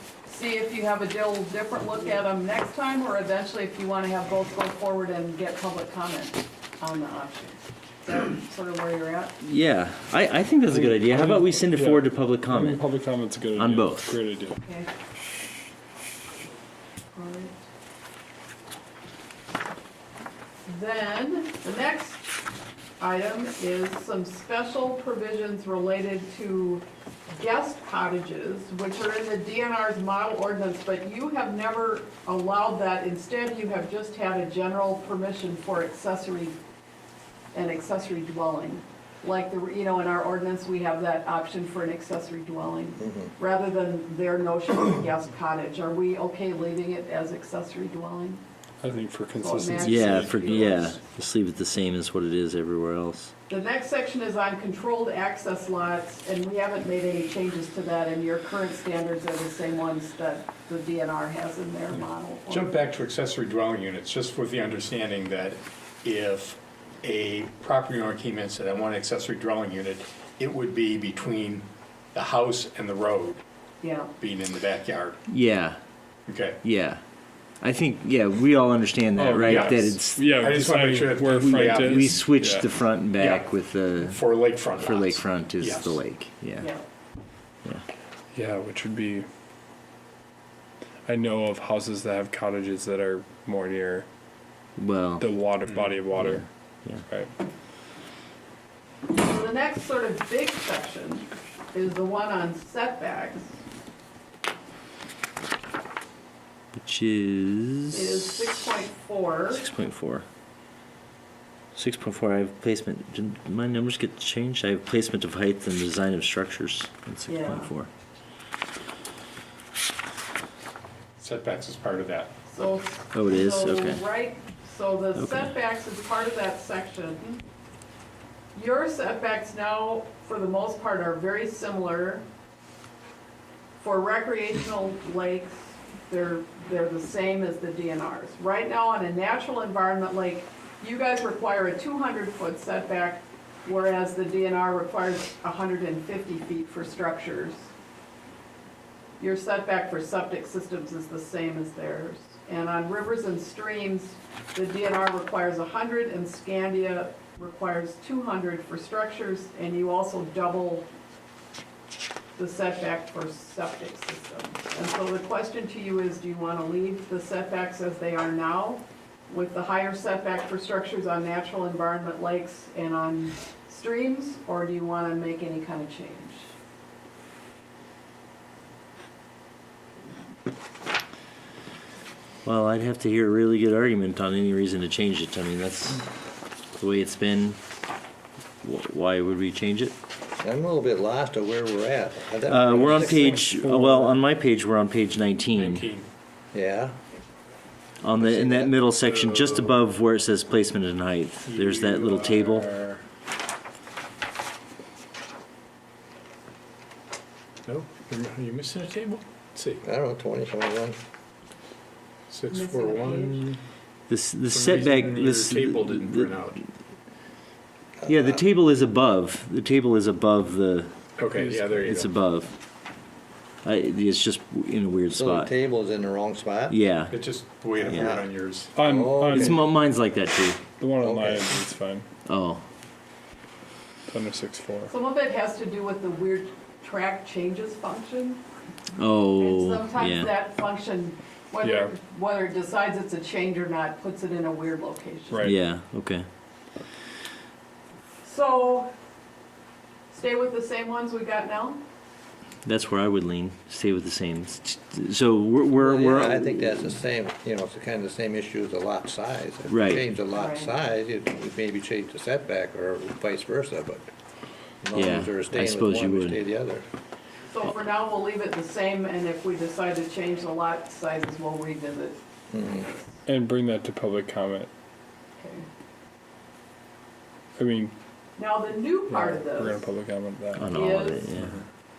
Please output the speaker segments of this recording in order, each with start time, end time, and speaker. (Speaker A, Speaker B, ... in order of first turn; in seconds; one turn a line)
Speaker A: 0.2-9.3
Speaker B: 9.4-13.0
Speaker C: 10.7-14.6
Speaker B: 13.5-14.2
Speaker A: 14.6-14.9
Speaker A: 17.1-17.6
Speaker A: 20.6-22.3
Speaker A: 23.0-36.5
Speaker A: 37.5-48.4
Speaker D: 43.0-43.3
Speaker C: 48.8-51.0
Speaker A: 49.4-51.0
Speaker B: 49.8-53.3
Speaker A: 53.5-62.7
Speaker E: 62.5-73.4
Speaker A: 73.8-74.1
Speaker E: 74.2-75.2
Speaker B: 75.3-75.8
Speaker E: 76.3-76.6
Speaker B: 76.6-77.0
Speaker B: 77.6-80.2
Speaker C: 79.2-82.7
Speaker E: 79.5-82.4
Speaker B: 81.4-86.7
Speaker E: 83.1-86.0
Speaker A: 86.6-86.8
Speaker C: 88.3-89.3
Speaker C: 91.0-94.1
Speaker B: 94.8-95.3
Speaker C: 95.2-96.5
Speaker E: 95.6-95.9
Speaker B: 96.1-97.0
Speaker C: 97.0-97.3
Speaker A: 99.1-103.5
Speaker B: 106.7-108.3
Speaker A: 107.9-109.6
Speaker B: 109.5-110.2
Speaker B: 111.7-117.9
Speaker A: 117.3-117.7
Speaker E: 121.2-122.3
Speaker A: 122.5-127.4
Speaker B: 123.1-124.0
Speaker B: 125.2-125.5
Speaker A: 128.5-132.2
Speaker A: 133.8-147.7
Speaker A: 149.2-160.9
Speaker A: 162.4-176.5
Speaker B: 182.4-186.1
Speaker B: 186.7-187.6
Speaker B: 188.6-189.9
Speaker D: 190.4-193.4
Speaker B: 192.4-195.8
Speaker C: 192.7-194.2
Speaker E: 195.5-196.1
Speaker D: 196.5-196.9
Speaker B: 198.0-202.7
Speaker D: 198.2-198.7
Speaker E: 198.9-199.8
Speaker E: 201.4-203.0
Speaker E: 207.7-209.8
Speaker D: 209.8-211.0
Speaker E: 212.3-213.6
Speaker A: 212.5-213.4
Speaker B: 214.1-216.3
Speaker E: 214.5-216.6
Speaker D: 218.0-218.4
Speaker B: 218.1-220.9
Speaker E: 221.2-222.1
Speaker C: 221.3-221.7
Speaker B: 221.8-222.5
Speaker B: 223.6-225.5
Speaker D: 225.1-226.8
Speaker B: 226.7-227.2
Speaker E: 227.1-228.7
Speaker D: 227.8-228.2
Speaker B: 227.8-228.2
Speaker C: 228.8-229.6
Speaker D: 228.8-229.6
Speaker B: 229.3-230.6
Speaker C: 230.8-232.1
Speaker D: 231.0-231.6
Speaker B: 232.2-232.6
Speaker C: 234.1-234.9
Speaker A: 234.9-238.4
Speaker B: 238.9-240.3
Speaker A: 239.4-245.5
Speaker C: 241.6-241.9
Speaker C: 245.3-245.6
Speaker B: 245.4-246.2
Speaker A: 248.2-248.9
Speaker A: 250.1-251.8
Speaker B: 252.6-257.0
Speaker D: 255.8-264.0
Speaker B: 259.7-260.0
Speaker A: 260.3-260.7
Speaker D: 264.8-266.8
Speaker B: 264.9-266.4
Speaker A: 267.5-272.2
Speaker D: 272.5-272.9
Speaker C: 273.2-274.7
Speaker A: 275.4-275.7
Speaker C: 277.6-277.9
Speaker A: 278.4-279.8
Speaker C: 279.1-280.8
Speaker B: 280.5-281.6
Speaker A: 280.7-281.3